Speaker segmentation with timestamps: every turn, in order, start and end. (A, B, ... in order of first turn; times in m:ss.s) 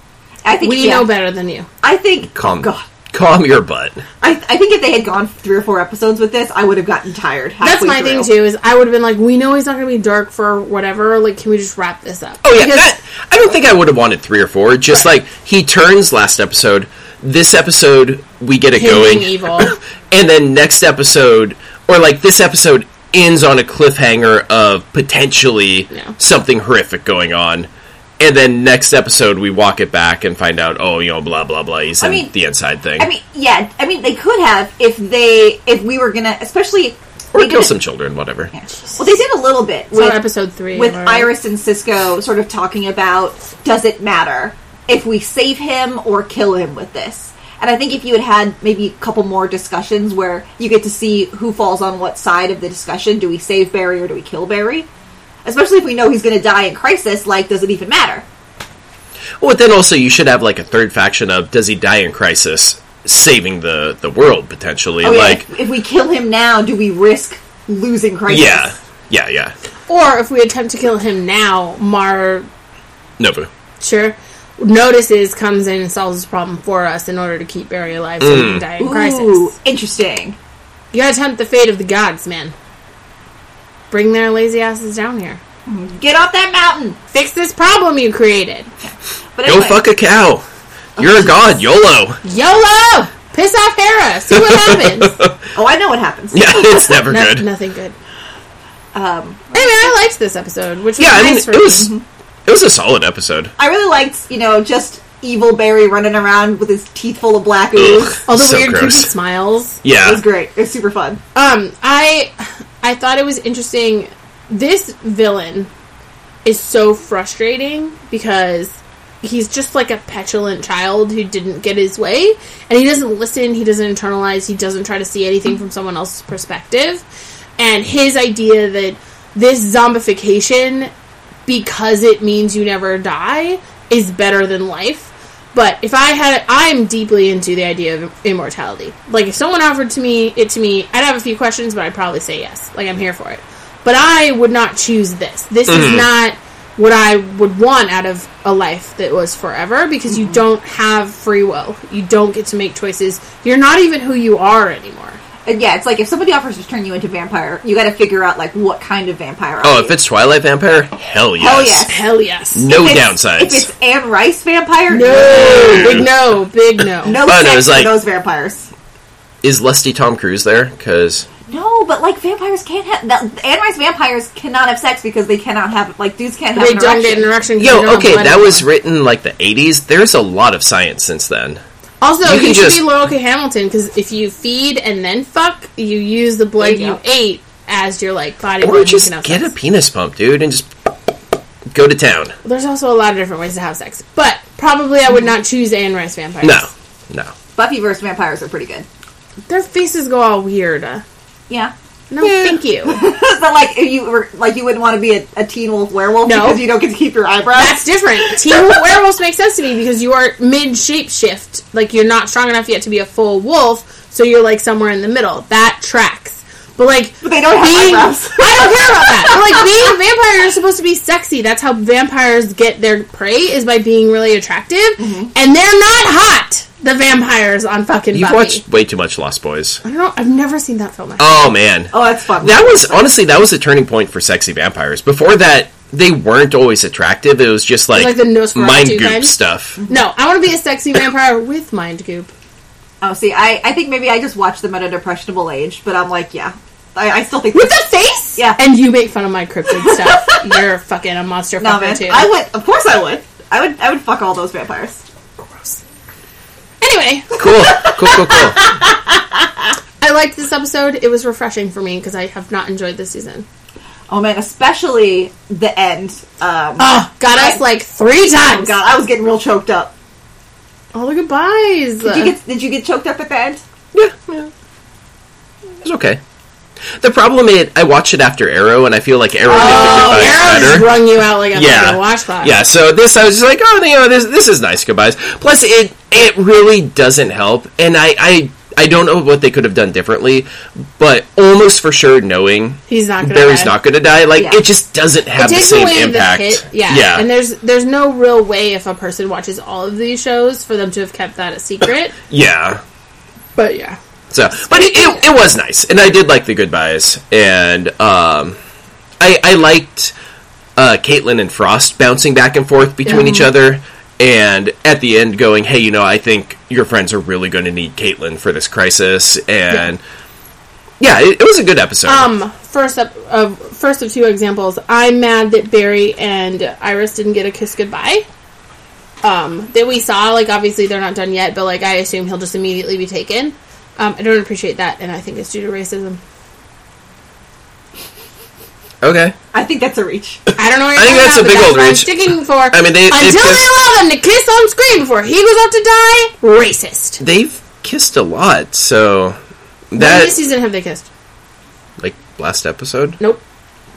0:00.4-0:01.1 A
0:00.5-0:01.7 B
0:01.8-0:02.8 A
0:02.3-0:04.0 C
0:04.2-0:08.3 A
0:07.6-0:12.8 B
0:12.4-0:27.7 C
0:18.8-0:19.7 B
0:28.2-0:33.1 C
0:32.0-0:32.3 A
0:33.0-0:37.7 A
0:37.3-0:38.5 C
0:38.5-0:54.9 A
0:39.9-0:41.3 B
0:55.4-0:58.2 A
0:59.4-1:05.5 C
1:05.0-1:08.7 A
1:08.3-1:09.5 C
1:09.9-1:12.5 B
1:13.2-1:13.5 C
1:13.8-1:19.5 B
1:18.2-1:18.6 C
1:18.8-1:20.4 A
1:20.9-1:22.5 B
1:23.9-1:25.4 B
1:25.7-1:27.0 A
1:27.1-1:28.7 B
1:29.4-1:29.8 A
1:29.4-1:30.4 C
1:31.0-1:31.6 A
1:31.0-1:32.2 C
1:32.2-1:35.2 B
1:34.3-1:35.5 C
1:35.6-1:37.0 A
1:36.3-1:37.4 C
1:37.0-1:38.0 B
1:38.9-1:39.9 A
1:39.5-1:41.9 B
1:41.0-1:41.9 C
1:41.8-1:42.0 A
1:42.5-1:43.5 C
1:43.6-1:48.2 A
1:47.8-1:49.1 C
1:48.3-1:49.8 B
1:49.8-1:50.2 C
1:50.0-1:51.2 A
1:51.3-1:55.7 B
1:56.4-2:07.0 B
2:07.6-2:10.9 B
2:11.5-2:35.2 B
2:25.7-2:26.1 C
2:30.1-2:30.4 A
2:35.4-2:39.9 A
2:39.6-2:41.9 C
2:41.4-2:41.9 A
2:41.9-2:42.7 B
2:42.5-2:43.7 C
2:42.7-2:46.0 A
2:44.9-2:47.2 B
2:45.1-2:46.1 C
2:47.0-2:48.7 A
2:47.2-2:47.9 C
2:49.4-2:51.3 C
2:51.5-2:57.3 A
2:56.5-2:58.6 B
2:57.6-3:01.6 C
3:02.0-3:09.5 B
3:02.2-3:02.8 C
3:06.6-3:07.0 A
3:08.6-3:10.7 C
3:11.7-3:12.3 C
3:12.4-3:16.7 B
3:16.4-3:17.3 C
3:17.6-3:18.9 A
3:19.5-3:21.0 B
3:22.1-3:23.0 B
3:22.2-3:28.6 A
3:26.2-3:26.6 B
3:27.5-3:48.6 B
3:37.2-3:39.6 A
3:45.0-3:45.3 A
3:48.1-3:49.8 C
3:49.8-3:51.5 B
3:51.2-3:59.8 C
3:51.9-3:53.1 A
3:57.9-3:59.3 B
3:59.8-4:00.0 A
3:59.9-4:02.3 B
4:03.0-4:08.6 A
4:07.5-4:12.3 B
4:09.8-4:10.4 A
4:11.6-4:15.0 A
4:15.4-4:15.8 B
4:16.8-4:17.3 B
4:17.4-4:18.6 C
4:17.8-4:19.5 A
4:20.0-4:23.4 B
4:24.1-4:27.6 A
4:26.8-4:28.8 B
4:28.4-4:29.9 A
4:30.9-4:32.3 B
4:32.0-4:33.6 A
4:33.9-4:34.5 C
4:35.8-4:36.2 C
4:37.0-4:40.9 C
4:39.5-4:42.6 B
4:39.5-4:40.4 A
4:41.5-4:57.2 C
4:52.9-4:53.7 B
4:54.4-4:54.6 A
4:55.4-5:02.1 B
5:02.3-5:02.8 C
5:03.6-5:04.0 B
5:04.3-5:08.6 C
5:04.5-5:05.3 B
5:09.2-5:10.1 C
5:10.8-5:20.0 C
5:13.1-5:13.3 B
5:13.1-5:13.4 A
5:21.0-5:22.3 C
5:22.0-5:28.2 B
5:29.2-5:36.2 B
5:39.0-5:39.4 C
5:39.5-5:40.4 A
5:40.6-5:47.2 B
5:40.9-5:42.1 C
5:42.7-5:43.7 C
5:47.2-5:49.4 C
5:49.9-5:50.4 C
5:50.0-5:51.1 B
5:52.0-5:53.2 C